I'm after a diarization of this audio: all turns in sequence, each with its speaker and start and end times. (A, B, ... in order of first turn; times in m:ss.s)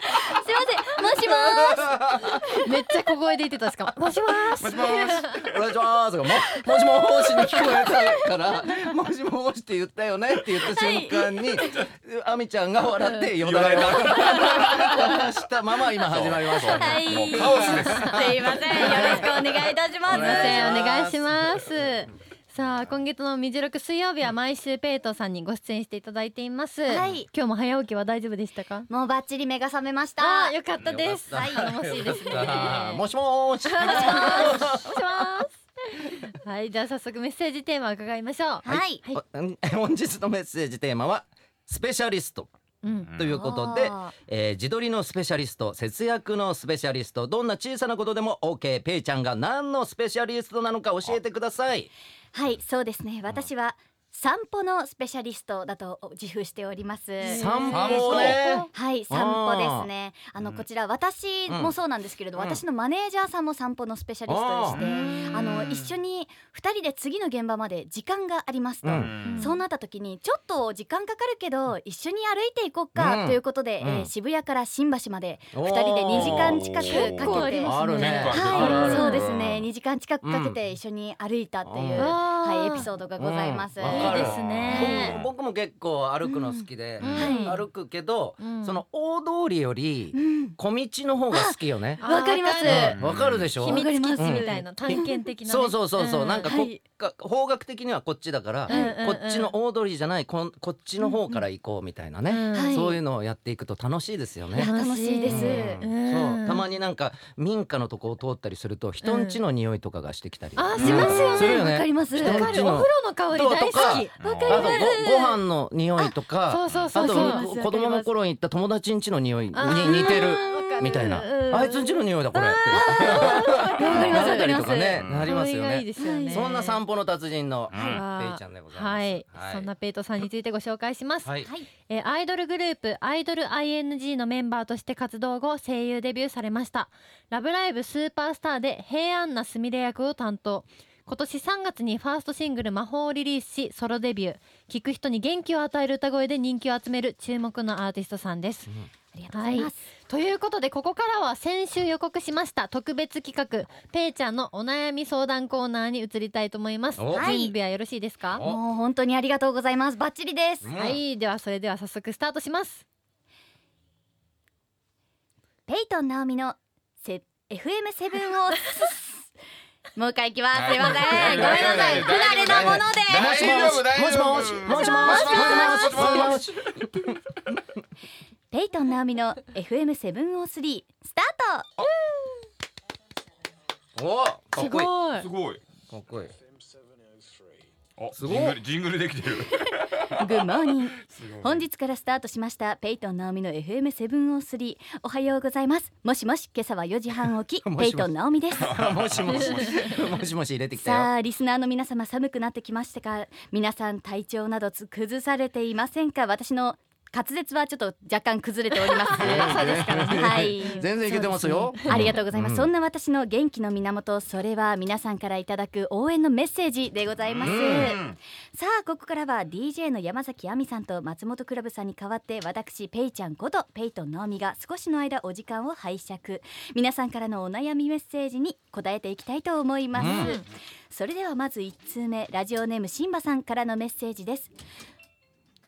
0:00.1-0:02.0 A
0:01.2-0:02.4 B
0:02.6-0:05.3 C
0:04.6-0:05.6 D
0:05.3-0:17.9 B
0:07.0-0:08.0 A
0:10.5-0:11.8 A
0:13.4-0:15.0 D
0:14.0-0:15.2 A
0:16.0-0:19.5 D
0:16.6-0:20.8 A
0:17.3-0:18.2 C
0:18.8-0:19.3 C
0:18.9-0:19.2 B
0:20.0-0:21.3 B
0:20.1-0:28.9 C
0:26.9-0:27.3 A
0:28.9-0:30.5 A
0:30.2-0:33.0 C
0:30.8-0:31.6 D
0:31.3-0:35.0 B
0:33.6-0:39.2 C
0:33.8-0:34.7 A
0:38.6-0:39.0 A
0:38.7-0:42.5 B
0:42.8-0:43.1 C
0:43.0-0:43.4 D
0:43.2-0:51.9 B
0:43.3-0:44.1 A
0:52.3-1:17.8 A
0:57.2-0:58.7 C
0:57.3-0:59.9 B
0:57.7-0:58.4 D
1:00.4-1:00.6 D
1:01.5-1:01.7 B
1:02.3-1:02.6 B
1:04.3-1:04.8 B
1:04.8-1:05.4 C
1:05.3-1:05.9 D
1:08.8-1:09.1 B
1:08.9-1:09.5 D
1:09.2-1:09.6 C
1:13.0-1:14.1 B
1:15.5-1:16.6 B
1:16.1-1:19.6 D
1:16.8-1:19.2 C
1:17.5-1:19.3 B
1:18.3-1:25.0 A
1:20.2-1:20.6 B
1:21.6-1:22.2 B
1:21.9-1:22.9 C
1:23.2-1:32.0 B
1:23.8-1:25.2 C
1:24.3-1:25.3 D
1:26.2-1:27.5 A
1:27.0-1:27.6 C
1:27.0-1:27.3 D
1:28.4-1:28.8 C
1:30.1-1:30.6 A
1:31.3-1:33.0 A
1:32.0-1:33.0 C
1:32.6-1:44.7 B
1:32.7-1:33.6 D
1:33.5-1:36.6 C
1:33.6-1:35.1 A
1:36.4-1:36.8 A
1:38.7-1:39.5 C
1:38.7-1:39.0 A
1:41.0-1:41.4 A
1:42.3-1:42.8 C
1:42.5-1:43.0 A
1:44.5-1:46.6 C
1:44.5-1:45.8 A
1:45.2-2:09.7 B
1:49.0-1:49.4 C
1:50.6-1:55.4 C
1:50.8-1:51.2 D
1:50.8-1:52.6 A
1:54.2-1:54.7 D
1:54.2-1:55.2 A
1:56.5-1:57.5 C
1:56.7-1:56.9 D
1:57.0-1:58.1 A
1:59.5-2:04.5 C
1:59.7-2:01.1 A
2:02.7-2:05.0 A
2:05.0-2:05.4 D
2:05.2-2:06.6 C
2:06.0-2:06.8 A
2:07.7-2:08.0 D
2:07.9-2:11.3 C
2:11.2-2:11.5 B
2:11.4-2:11.7 A
2:11.9-2:28.7 C
2:29.1-2:29.8 A
2:29.3-2:38.4 C
2:37.0-2:37.3 B
2:37.1-2:37.5 A
2:38.3-2:38.6 B
2:38.4-2:40.7 A
2:40.6-2:41.0 B
2:40.8-2:42.8 C
2:45.7-2:49.3 A
2:50.0-2:53.7 A
2:50.5-2:56.8 D
2:51.1-2:57.1 B
2:51.3-2:52.2 C
2:54.5-2:56.4 A
2:58.5-3:01.7 A
3:04.0-3:04.9 B
3:04.5-3:05.3 C
3:05.2-3:05.6 D
3:05.9-3:06.3 B
3:08.0-3:11.6 D
3:08.1-3:08.6 B
3:10.1-3:18.7 A
3:17.6-3:21.1 B
3:18.6-3:19.9 D
3:20.8-3:54.5 A
3:28.7-3:32.2 C
3:29.2-3:32.7 B
3:37.3-3:38.1 D
3:37.4-3:38.0 B
3:50.0-3:50.4 B
3:50.0-3:50.4 C